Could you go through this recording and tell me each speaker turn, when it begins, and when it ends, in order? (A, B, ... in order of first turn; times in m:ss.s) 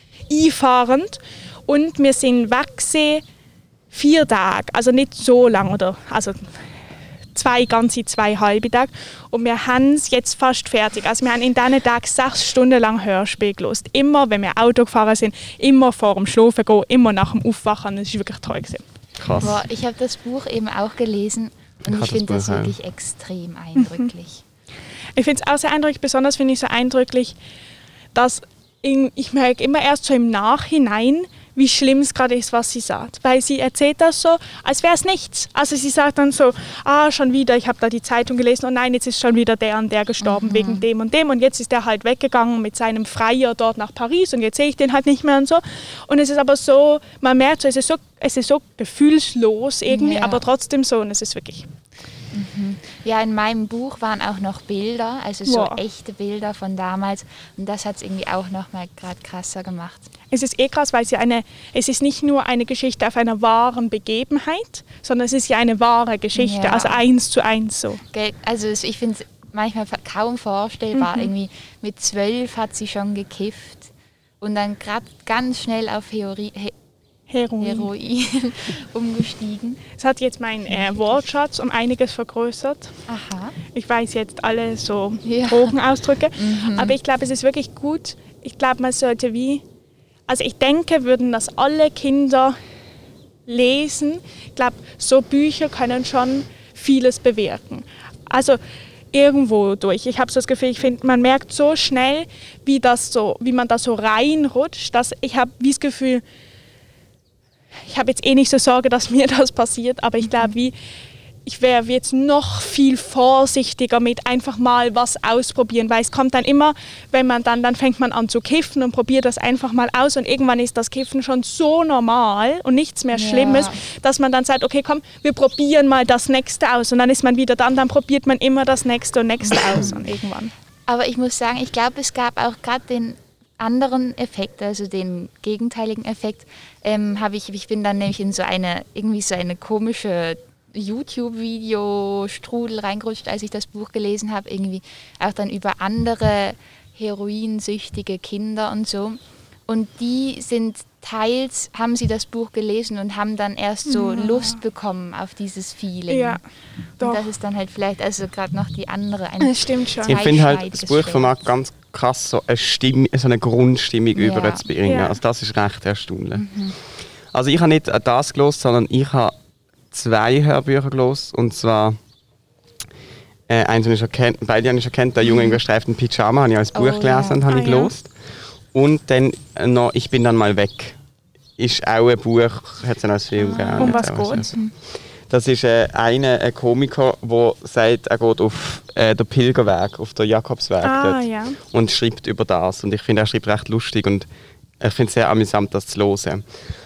0:00.3-0:03.2 A
0:03.9-0:06.5 A
0:07.3-0:18.8 A
0:19.2-0:19.6 B
0:19.4-0:24.4 C
0:21.8-0:22.7 B
0:23.8-0:24.1 A
0:25.2-0:27.4 A
0:28.1-0:51.7 A
0:40.2-0:40.8 C
0:49.9-0:50.4 C
0:52.3-1:00.1 C
0:55.4-0:55.8 A
1:00.3-1:08.0 A
1:06.4-1:07.0 C
1:08.1-1:16.7 C
1:10.9-1:11.3 A
1:17.3-1:17.9 A
1:17.6-1:19.8 C
1:20.0-1:23.0 A
1:20.7-1:21.2 C
1:23.1-1:23.6 C
1:23.7-1:29.6 A
1:25.2-1:25.7 C
1:26.3-1:27.0 C
1:30.3-1:32.6 A
1:33.5-1:38.6 A
1:39.1-1:46.2 A
1:47.8-1:50.7 A
1:51.4-2:10.5 A
2:03.1-2:03.8 C
2:09.5-2:10.1 C
2:10.9-2:36.4 C
2:33.8-2:34.6 A
2:36.1-2:36.4 A
2:37.0-2:41.4 C
2:39.4-2:40.2 A
2:40.0-2:46.4 B
2:44.1-2:44.6 C
2:44.8-2:45.2 A
2:46.3-2:46.8 C
2:47.3-2:49.3 B
2:49.9-2:52.0 B
2:53.5-2:58.1 B
2:56.7-2:57.4 C
2:57.5-2:57.9 A
2:58.7-3:01.0 B
3:01.6-3:04.6 B
3:03.4-3:04.7 C
3:03.8-3:04.5 A
3:05.3-3:14.3 B
3:10.8-3:11.6 A
3:14.8-3:16.4 B